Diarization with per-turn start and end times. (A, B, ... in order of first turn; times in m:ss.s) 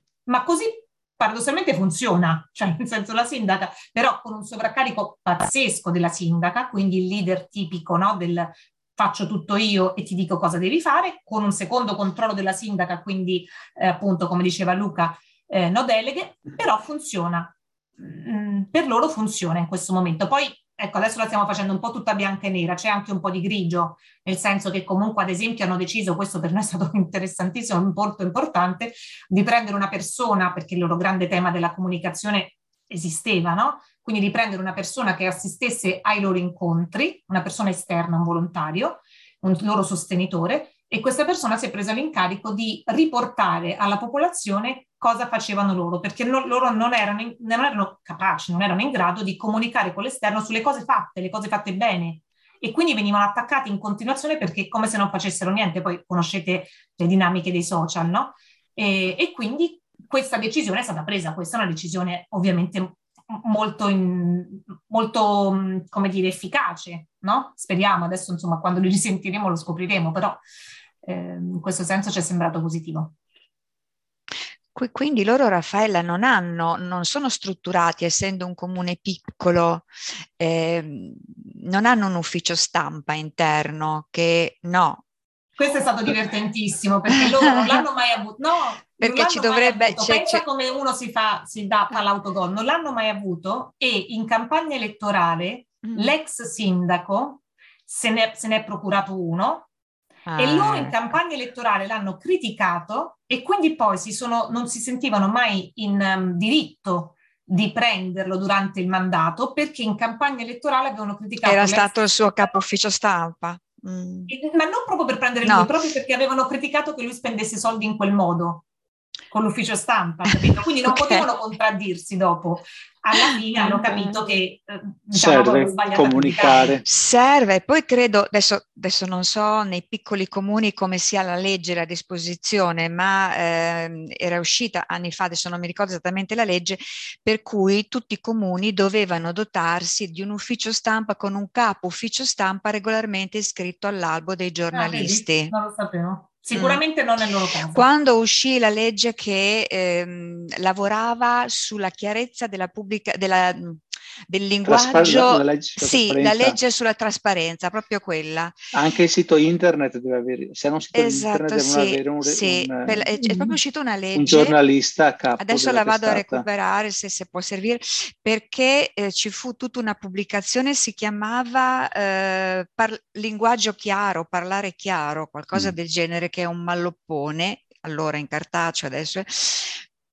0:00.3-1:10.4 A
1:11.0-1:13.2 A
1:14.8-1:19.9 B
1:20.4-1:25.0 B
1:25.6-1:39.7 A
1:29.0-1:30.4 B
1:35.8-1:36.1 B
1:40.3-1:41.0 B
1:40.4-1:52.6 A
1:51.4-1:54.3 B
1:54.3-1:58.6 A
1:55.4-1:55.7 B
1:59.3-2:06.8 A
2:00.4-2:01.2 B
2:03.6-2:04.2 B
2:05.1-2:06.8 C
2:06.8-2:25.5 B
2:24.7-2:27.8 A
2:26.5-2:26.8 B
2:27.7-2:38.6 B
2:34.6-2:36.6 C
2:38.7-2:43.6 C
2:40.9-2:44.6 B
2:44.1-2:46.4 C
2:45.4-2:59.8 B